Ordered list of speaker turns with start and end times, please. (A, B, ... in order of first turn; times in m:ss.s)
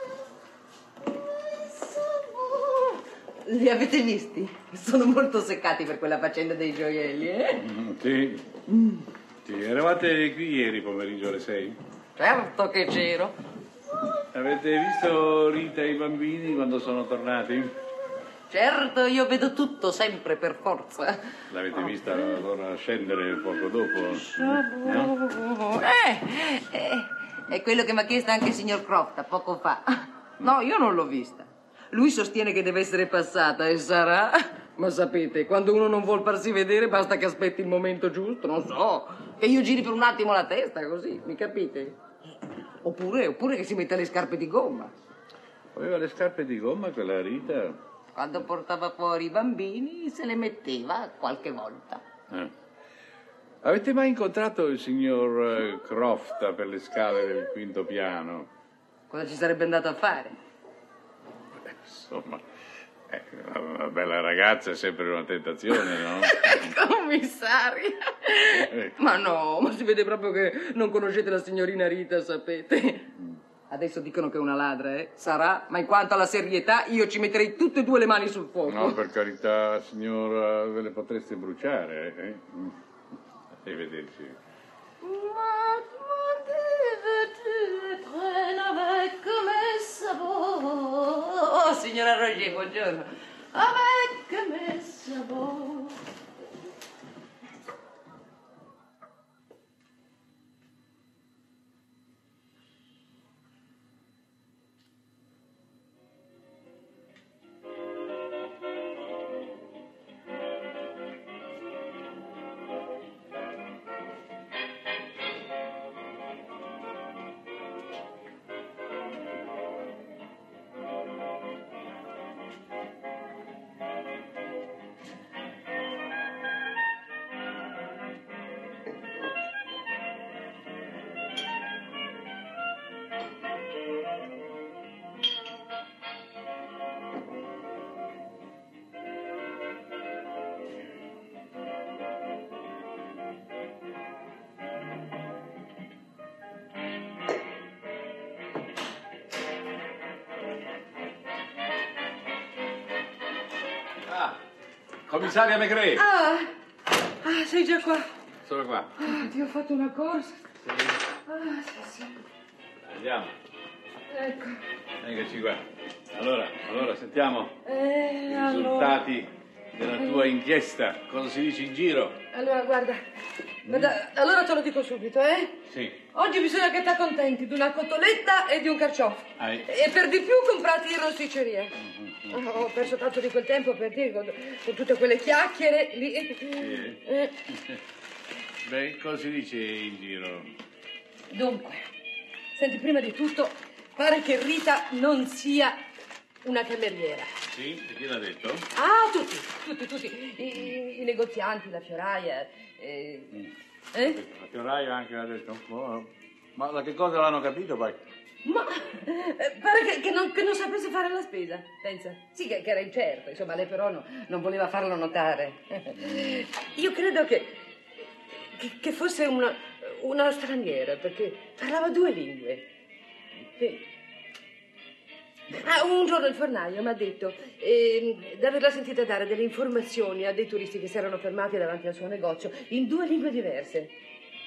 0:01.6-0:07.6 A
0:07.6-0:11.8 B
0:12.2-0:13.3 A
0:14.3-0:17.7 B
0:18.5-0:21.1 A
0:21.5-0:25.2 B
0:24.2-0:41.9 A
0:42.8-0:44.9 A
0:45.7-0:47.8 B
0:48.2-0:52.0 A
0:53.6-0:58.5 B
0:59.1-1:00.3 A
1:01.7-1:02.4 B
1:03.1-1:06.4 B
1:06.3-1:13.0 A
1:08.6-1:08.9 B
1:13.7-1:19.0 A
1:18.7-1:22.7 B
1:23.6-1:24.4 B
1:25.0-1:36.0 A
2:34.1-2:34.4 B
2:35.1-2:36.0 B
2:36.0-2:36.5 A
2:37.2-2:38.1 A
2:38.4-2:39.1 B
2:39.0-2:40.5 A
2:41.2-2:42.2 A
2:42.9-2:43.3 B
2:44.1-2:44.6 A
2:45.0-2:45.6 B
2:46.1-2:47.6 B
2:47.6-2:49.0 A
2:48.2-2:52.2 B
2:50.0-2:50.2 A
2:52.3-2:53.0 A
2:53.7-2:55.6 A
2:53.7-2:53.9 B
2:55.7-2:56.0 B
2:56.1-3:01.7 A
2:59.4-2:59.6 B
3:01.8-3:02.4 B
3:02.3-3:07.3 A
3:06.6-3:07.0 B
3:08.6-3:10.5 B
3:11.3-3:11.8 A
3:12.5-3:15.8 A
3:16.4-3:17.3 A
3:17.5-3:18.6 B
3:18.7-3:23.3 A
3:24.0-3:28.0 B
3:28.4-3:37.6 A
3:38.4-3:42.7 A
3:43.6-3:43.8 A
3:45.6-3:53.9 A